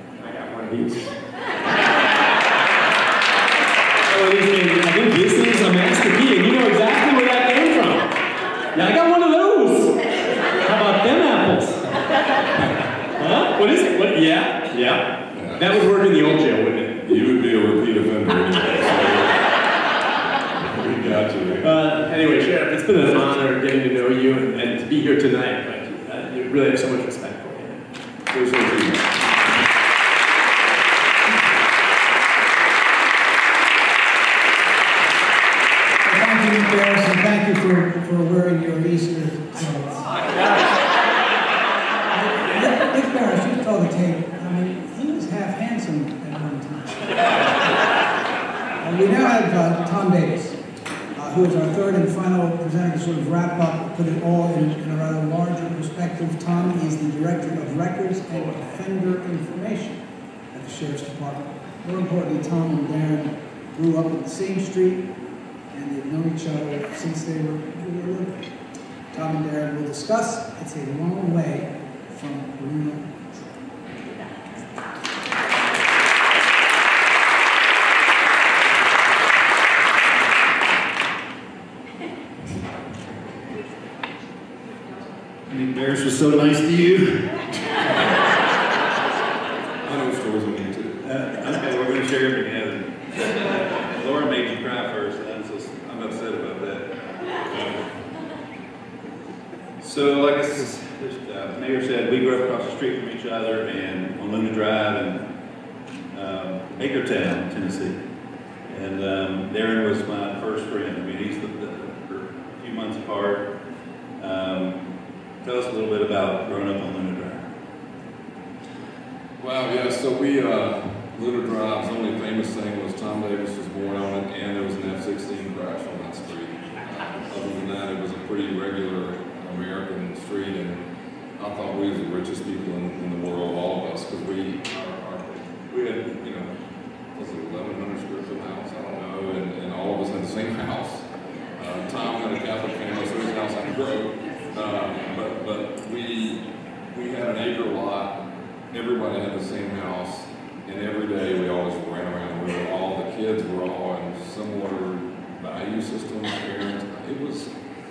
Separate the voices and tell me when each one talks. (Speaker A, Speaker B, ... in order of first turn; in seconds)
Speaker A: 0.2-1.1, 4.1-8.1, 8.7-10.0, 10.6-11.8, 13.2-17.0, 21.6-27.8
Speaker B: 15.3-15.8, 17.1-19.4, 20.7-21.7, 28.3-29.1, 89.8-91.0, 119.4-130.8, 131.4-136.5, 137.1-141.0, 141.6-148.2, 148.7-157.5
Speaker C: 36.0-40.2, 42.1-47.3, 48.8-50.6, 51.1-60.0, 60.5-65.0, 65.7-68.4, 69.1-73.2
Speaker D: 85.5-87.3, 91.0-96.8, 99.8-105.2, 106.1-108.0, 108.7-113.5, 114.2-114.7, 115.4-117.5